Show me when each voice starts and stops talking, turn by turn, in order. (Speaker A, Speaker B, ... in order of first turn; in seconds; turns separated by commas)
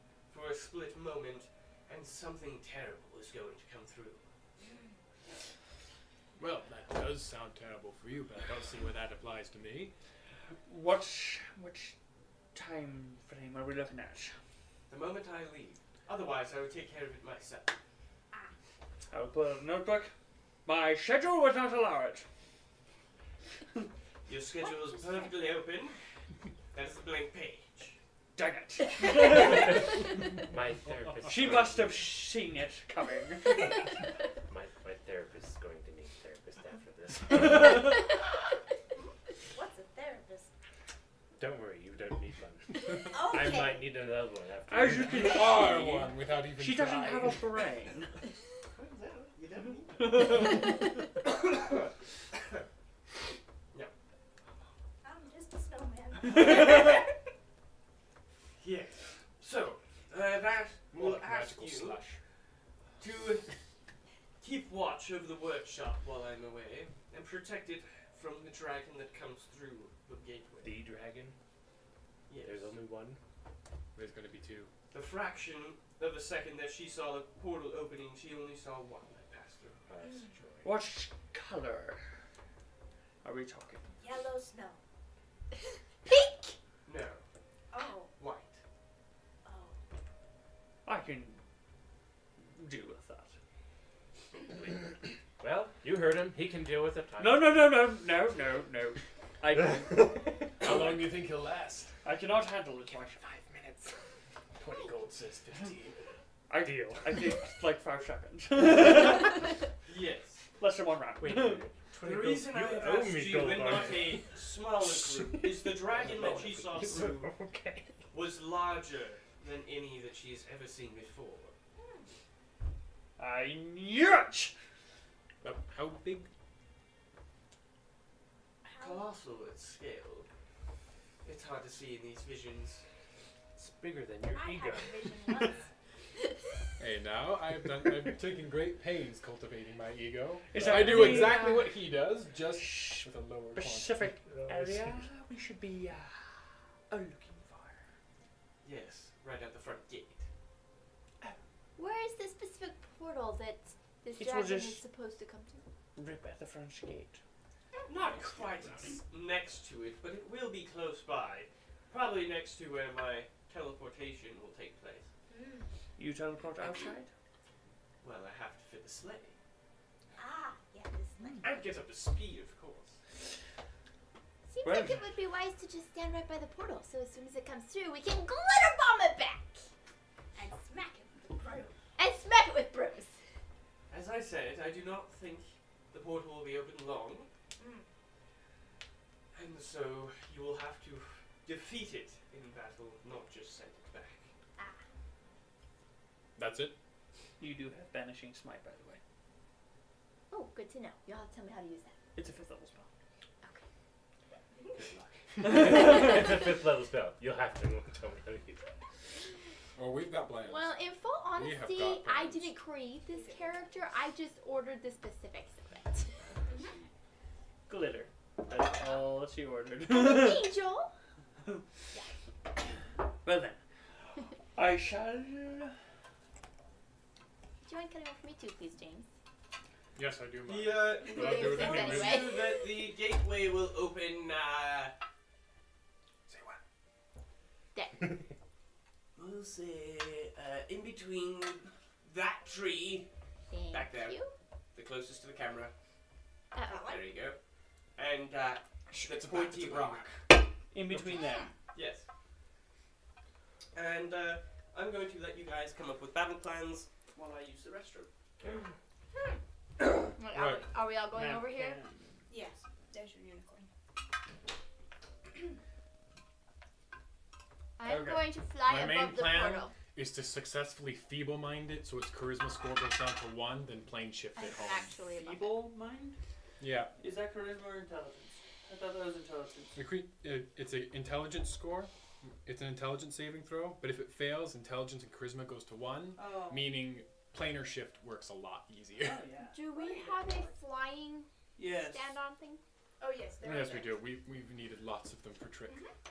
Speaker A: 0.3-4.2, Speaker B: 6.4-9.9, Speaker C: 10.7-12.0, Speaker C: 12.5-14.3, Speaker A: 14.9-17.8, Speaker C: 19.1-20.1, Speaker C: 20.7-22.3, Speaker A: 24.3-26.0, Speaker D: 25.0-25.3, Speaker A: 26.7-28.0, Speaker C: 28.4-29.9, Speaker E: 30.4-32.1, Speaker C: 31.2-33.8, Speaker E: 34.5-38.0, Speaker C: 37.4-37.9, Speaker D: 39.5-40.5, Speaker E: 41.4-45.5, Speaker D: 43.0-43.9, Speaker C: 44.7-48.1, Speaker B: 45.1-47.4, Speaker A: 48.7-50.3, Speaker C: 50.0-50.7, Speaker A: 51.3-51.9, Speaker D: 55.0-57.1, Speaker A: 56.5-56.8, Speaker A: 58.6-62.0, Speaker B: 60.9-62.2, Speaker A: 63.0-63.5, Speaker A: 64.4-70.7, Speaker E: 70.6-71.4, Speaker A: 72.3-72.8, Speaker E: 72.4-73.2, Speaker B: 74.0-74.7, Speaker A: 74.9-79.9, Speaker E: 79.9-80.7, Speaker D: 80.0-80.3, Speaker C: 80.6-82.0, Speaker C: 83.2-83.9, Speaker D: 84.0-84.8, Speaker F: 86.1-86.5, Speaker A: 86.8-87.2, Speaker D: 87.7-88.1, Speaker A: 88.2-88.6, Speaker D: 89.5-89.8, Speaker C: 90.8-91.4, Speaker C: 92.4-93.3, Speaker E: 95.4-97.6, Speaker C: 97.2-100.2, Speaker B: 100.6-102.0, Speaker C: 102.0-103.2, Speaker B: 103.0-104.0, Speaker B: 104.6-106.0, Speaker C: 106.5-109.5, Speaker A: 109.9-110.4, Speaker C: 110.6-111.7, Speaker E: 111.2-117.9, Speaker A: 112.0-117.3, Speaker C: 116.0-117.1, Speaker A: 118.1-121.5, Speaker D: 121.8-122.1, Speaker C: 123.2-124.5, Speaker B: 125.4-126.3, Speaker D: 128.6-129.1, Speaker A: 128.8-130.3, Speaker A: 131.2-132.8, Speaker E: 133.6-135.2, Speaker D: 134.3-135.7, Speaker B: 136.8-144.0, Speaker C: 140.5-141.6, Speaker F: 140.8-141.7, Speaker C: 142.6-147.9, Speaker E: 144.2-145.1, Speaker A: 148.6-150.3, Speaker F: 151.8-155.6, Speaker C: 154.2-154.8, Speaker C: 156.0-157.2, Speaker A: 157.9-165.1, Speaker D: 165.3-165.7, Speaker C: 166.0-167.1, Speaker A: 168.0-169.4, Speaker D: 170.2-171.5, Speaker A: 171.4-173.0, Speaker F: 174.5-179.6, Speaker C: 174.6-175.1, Speaker D: 180.3-181.8, Speaker F: 182.0-183.2, Speaker A: 183.9-187.3, Speaker D: 187.6-187.9, Speaker A: 189.3-194.3, Speaker B: 196.4-196.8, Speaker C: 197.4-199.0, Speaker F: 200.3-201.9, Speaker C: 202.2-202.9, Speaker E: 205.4-208.7, Speaker C: 205.4-206.2, Speaker B: 209.8-210.8, Speaker F: 210.5-216.2, Speaker B: 211.3-212.6, Speaker D: 213.1-213.9, Speaker C: 217.7-220.5, Speaker F: 219.9-220.9, Speaker C: 223.2-223.6, Speaker C: 224.6-225.8, Speaker F: 227.6-229.1, Speaker B: 230.0-232.3, Speaker A: 230.5-234.9, Speaker F: 231.1-232.8, Speaker B: 236.3-236.6, Speaker F: 237.7-238.1, Speaker A: 239.2-243.1, Speaker F: 243.5-244.3, Speaker A: 243.7-244.2, Speaker A: 244.8-245.7, Speaker F: 246.5-246.9, Speaker D: 246.7-247.1, Speaker A: 246.8-247.4, Speaker A: 248.0-250.1, Speaker B: 248.9-250.2, Speaker C: 250.7-251.5, Speaker B: 250.9-251.2, Speaker A: 251.7-252.1, Speaker A: 253.7-258.6, Speaker F: 260.2-261.8, Speaker B: 260.3-260.6, Speaker C: 261.1-262.1, Speaker D: 262.3-263.7, Speaker F: 267.8-269.8, Speaker C: 267.9-268.2, Speaker B: 268.6-274.9, Speaker F: 274.4-275.6, Speaker C: 275.1-276.2, Speaker B: 276.6-276.9, Speaker C: 277.0-279.8, Speaker B: 279.8-289.2, Speaker C: 286.2-286.8, Speaker C: 289.0-289.6, Speaker F: 289.5-292.6, Speaker D: 289.7-290.6, Speaker C: 291.6-292.2, Speaker D: 293.0-294.1, Speaker B: 293.4-295.8